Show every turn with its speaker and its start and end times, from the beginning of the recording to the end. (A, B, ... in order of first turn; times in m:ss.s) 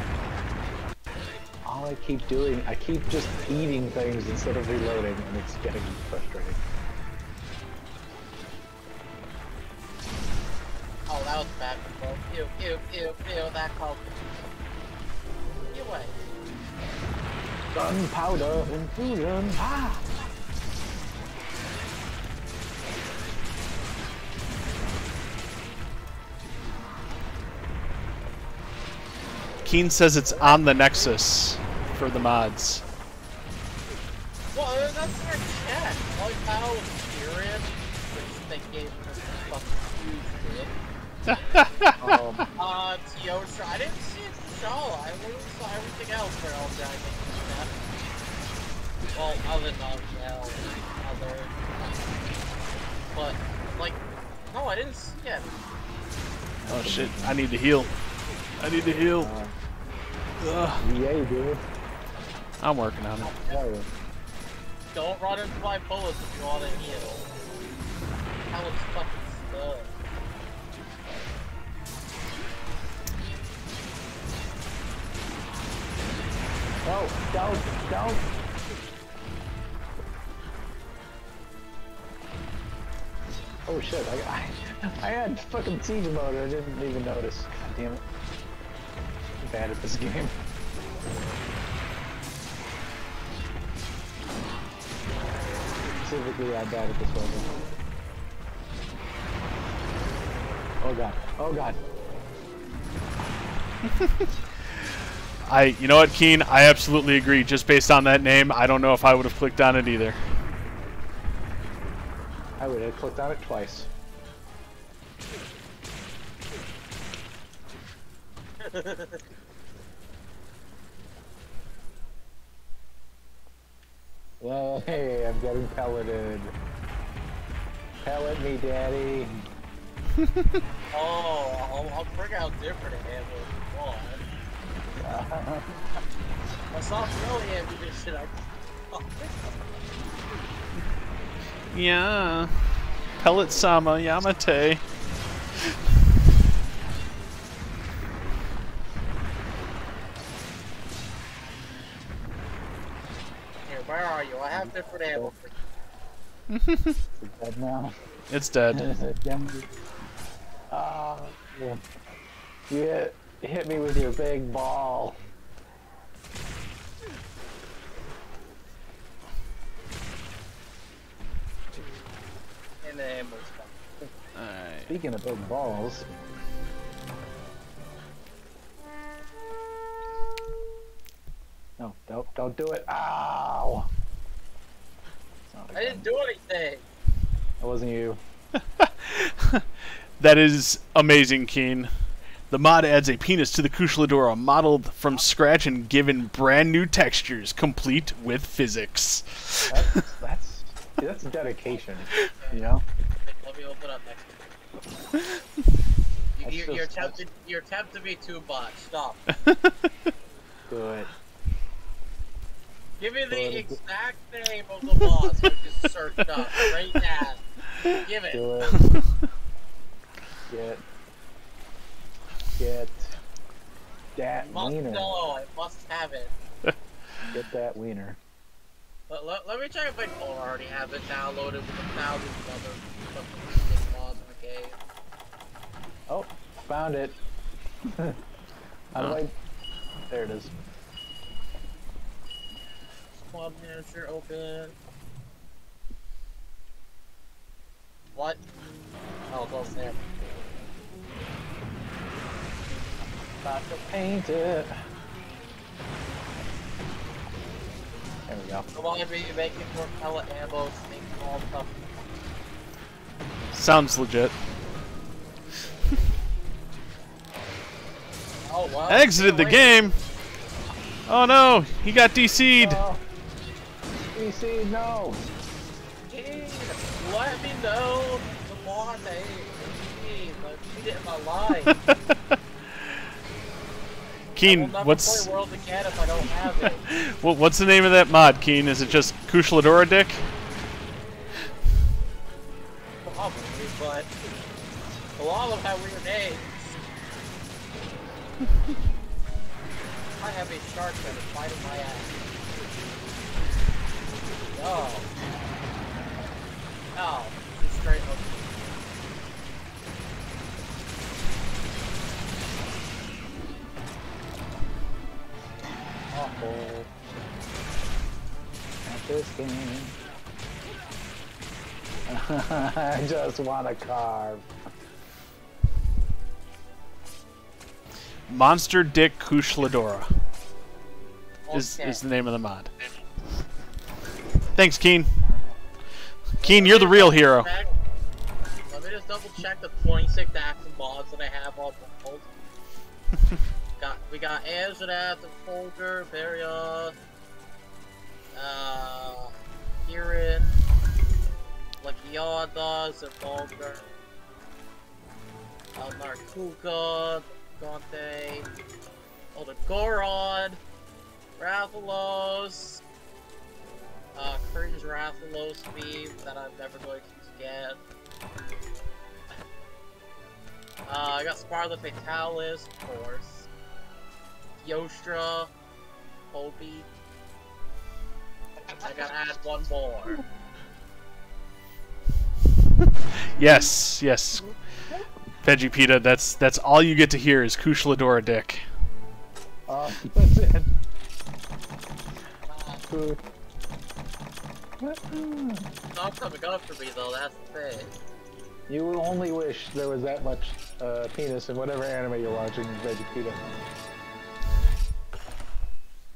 0:01.6-0:06.6 A
0:11.1-0:14.4 B
0:15.7-0:16.2 B
0:17.7-0:20.0 A
0:29.6-0:32.8 C
0:30.3-0:31.2 B
0:34.5-0:40.7 B
0:41.3-0:42.5 C
0:42.0-0:42.5 A
0:42.6-0:47.8 B
0:49.1-0:52.2 B
0:53.1-0:55.6 B
0:56.6-0:57.4 A
0:56.7-0:57.9 C
0:58.6-0:59.3 C
0:59.2-0:59.5 A
1:00.4-1:00.8 C
1:00.8-1:01.6 A
1:02.6-1:03.3 C
1:03.2-1:03.7 B
1:03.5-1:03.9 A
1:04.9-1:07.2 B
1:08.5-1:09.9 B
1:16.8-1:18.2 A
1:23.7-1:28.0 A
1:29.4-1:30.4 A
1:35.9-1:37.6 A
1:40.8-1:41.8 A
1:43.9-1:44.8 C
1:45.4-1:50.2 C
1:52.6-1:53.9 A
1:58.6-1:59.2 B
2:04.4-2:06.6 A
2:08.0-2:09.4 A
2:10.2-2:10.6 C
2:10.9-2:14.2 B
2:14.9-2:15.8 A
2:16.7-2:19.5 B
2:21.7-2:22.5 C
2:23.2-2:24.8 C
2:33.6-2:35.6 B
2:34.5-2:35.3 A
2:36.5-2:37.0 C
2:37.2-2:37.9 A
2:38.3-2:38.9 C
2:38.7-2:39.7 A
2:40.7-2:41.8 A
2:42.7-2:45.2 A
2:52.8-2:54.0 B
2:54.3-2:55.0 C
2:54.9-2:56.1 A
3:01.8-3:03.9 A
3:05.5-3:06.1 A
3:05.7-3:06.8 B
3:07.6-3:08.2 A
3:08.8-3:09.6 C
3:10.2-3:11.9 C
3:12.5-3:19.8 C
3:19.7-3:22.8 A
3:21.7-3:22.7 B
3:23.2-3:24.5 B
3:26.4-3:29.2 B
3:26.4-3:27.2 A
3:30.7-3:31.1 A
3:33.0-3:37.4 B
3:33.3-3:33.8 A
3:38.0-3:38.8 B
3:38.3-3:38.8 A
3:38.8-3:39.0 C
3:40.5-3:40.8 A
3:42.6-3:43.2 A
3:44.2-3:45.2 A
3:44.4-3:46.3 B
3:47.3-3:48.2 A
3:49.1-3:54.8 B
3:56.1-3:57.2 A
3:58.9-3:59.3 A
4:00.1-4:00.6 A
4:03.1-4:04.8 B
4:08.1-4:08.4 B
4:09.3-4:10.1 B
4:13.4-4:14.7 A
4:18.3-4:18.7 A
4:18.7-4:22.0 B
4:23.5-4:24.4 C
4:28.4-4:29.9 B
4:28.9-4:30.0 C
4:31.1-4:32.8 C
4:32.6-4:33.0 A
4:34.2-4:35.2 A
4:36.1-4:41.7 B
4:41.7-4:42.2 C
4:44.4-4:45.3 C
4:44.4-4:46.8 B
4:46.4-4:50.3 C
4:53.0-4:54.1 B
4:55.2-4:56.8 B
5:00.2-5:02.2 B
5:04.5-5:05.1 B
5:07.0-5:08.7 B
5:16.1-5:16.9 A
5:18.8-5:19.9 A
5:22.1-5:24.5 A
5:28.3-5:30.1 C
5:31.5-5:32.0 B
5:31.5-5:32.7 C
5:34.6-5:35.1 C
5:35.3-5:35.6 A
5:36.4-5:37.5 C
5:36.4-5:37.7 B
5:38.7-5:42.3 B
5:43.8-5:47.0 B
5:48.3-5:49.3 B
5:49.8-5:50.6 B
5:51.8-5:53.9 B
5:55.8-5:58.5 B
5:59.3-6:00.6 B
6:01.4-6:02.8 B
6:04.2-6:07.8 B
6:10.8-6:13.5 B
6:14.6-6:15.5 B
6:16.3-6:16.9 B
6:18.8-6:20.2 B
6:23.4-6:24.5 C
6:25.4-6:28.6 C
6:29.7-6:30.7 A
6:32.5-6:32.8 B
6:32.9-6:33.2 A
6:34.8-6:35.7 A
6:35.9-6:37.9 B
6:38.7-6:43.5 A